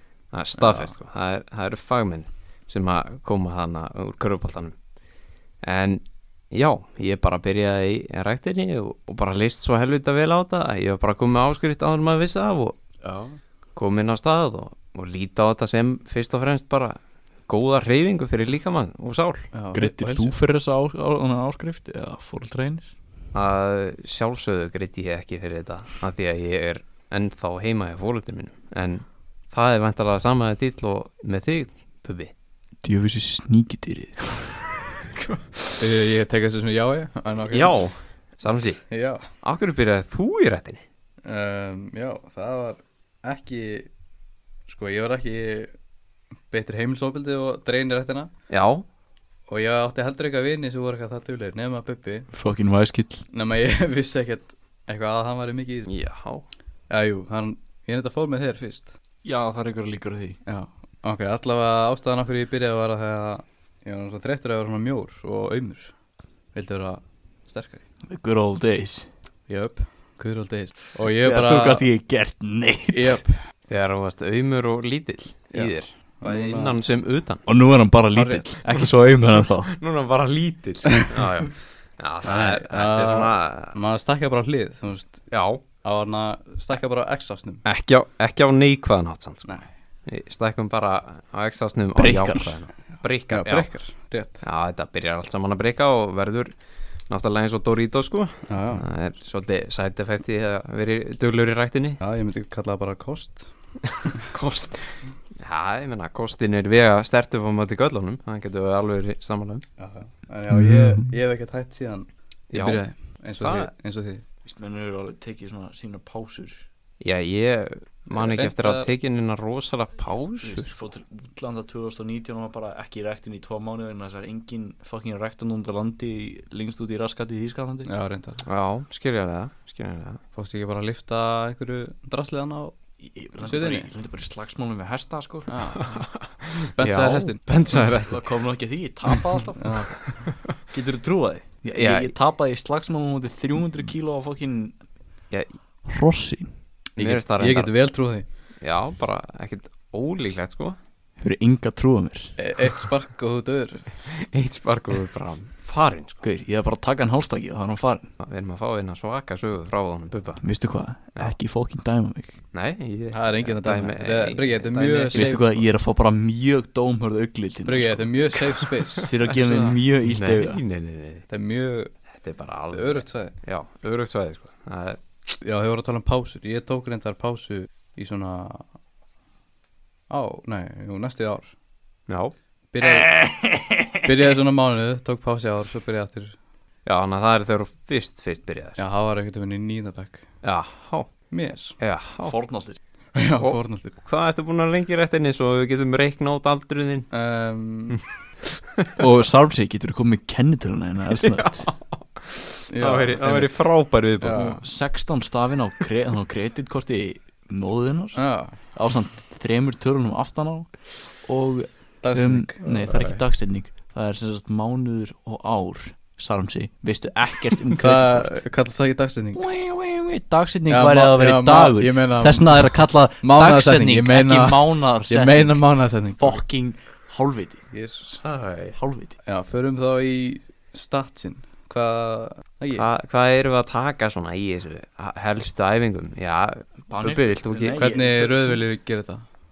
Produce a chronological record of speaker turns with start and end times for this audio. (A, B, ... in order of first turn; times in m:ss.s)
0:00.3-0:04.7 A
0:05.6-0:12.8 A
0:13.0-0:13.4 B
0:13.7-0:19.5 A
0:19.5-0:20.4 B
0:19.7-0:22.9 C
0:23.3-0:32.3 A
0:32.8-0:34.6 C
0:35.8-0:37.7 B
0:37.5-0:38.8 A
0:38.9-0:39.2 B
0:39.4-0:40.8 A
0:41.2-0:43.9 B
0:44.7-0:45.7 B
0:46.5-0:48.3 B
0:48.5-0:48.8 A
0:49.5-0:52.3 B
0:52.3-0:53.2 C
0:53.3-0:55.9 B
0:55.9-0:56.4 A
0:56.9-0:58.9 B
0:59.2-1:00.4 C
1:00.4-1:05.9 B
1:06.5-1:07.8 B
1:08.1-1:09.1 C
1:09.5-1:11.9 B
1:11.0-1:13.2 C
1:12.9-1:13.4 B
1:13.7-1:17.4 A
1:15.5-1:16.8 B
1:17.4-1:19.7 C
1:18.1-1:18.5 B
1:19.7-1:23.8 A
1:22.2-1:25.3 B
1:25.3-1:25.6 A
1:25.8-1:27.6 B
1:27.6-1:29.5 A
1:30.0-1:33.7 A
1:32.0-1:32.6 C
1:33.3-1:34.4 B
1:34.4-1:36.5 A
1:37.1-1:42.0 A
1:38.4-1:38.8 B
1:42.0-1:43.5 B
1:44.0-1:49.6 A
1:49.8-1:54.2 B
1:52.5-1:52.8 A
1:53.4-1:53.7 A
1:54.4-1:56.6 C
1:57.0-2:00.8 A
1:58.1-1:58.9 B
2:00.4-2:07.9 C
2:07.8-2:08.4 B
2:08.4-2:10.2 A
2:10.3-2:12.8 B
2:13.0-2:15.6 C
2:13.4-2:13.9 B
2:15.5-2:16.1 B
2:15.8-2:18.2 A
2:16.8-2:17.4 B
2:18.1-2:20.0 C
2:19.6-2:20.1 B
2:20.6-2:24.8 C
2:21.7-2:22.1 A
2:25.8-2:26.5 C
2:27.0-2:27.7 A
2:27.0-2:28.2 B
2:28.6-2:30.8 A
2:31.2-2:32.4 C
2:32.4-2:33.9 B
2:34.1-2:36.2 A
2:36.2-2:38.1 C
2:38.2-2:40.4 A
2:40.4-2:42.4 C
2:42.5-2:45.4 A
2:43.1-2:45.6 B
2:45.1-2:50.6 C
2:47.6-2:49.8 B
2:50.0-2:51.2 A
2:51.3-2:51.9 B
2:52.2-2:55.0 A
2:52.7-2:53.3 B
2:55.4-2:58.7 B
3:00.1-3:01.5 B
3:02.1-3:02.3 A
3:02.7-3:03.1 B
3:02.8-3:04.0 C
3:04.0-3:06.4 B
3:06.8-3:08.8 A
3:08.8-3:10.2 B
3:10.4-3:11.1 A
3:11.3-3:11.8 B
3:11.8-3:12.3 A
3:12.2-3:12.8 C
3:13.1-3:13.9 B
3:13.4-3:17.1 A
3:17.1-3:18.0 B
3:19.0-3:21.7 C
3:21.2-3:24.6 A
3:22.7-3:23.7 B
3:24.2-3:24.6 B
3:24.3-3:38.4 C
3:28.1-3:28.5 B
3:32.0-3:32.7 B
3:32.8-3:33.2 A
3:37.8-3:39.4 B
3:39.3-3:47.6 C
3:40.7-3:46.4 B
3:47.7-3:48.2 B
3:48.2-3:48.8 A
3:48.8-3:49.1 C
3:49.2-3:52.8 B
3:52.7-3:57.8 A
3:56.9-3:58.6 C
3:57.8-3:59.2 B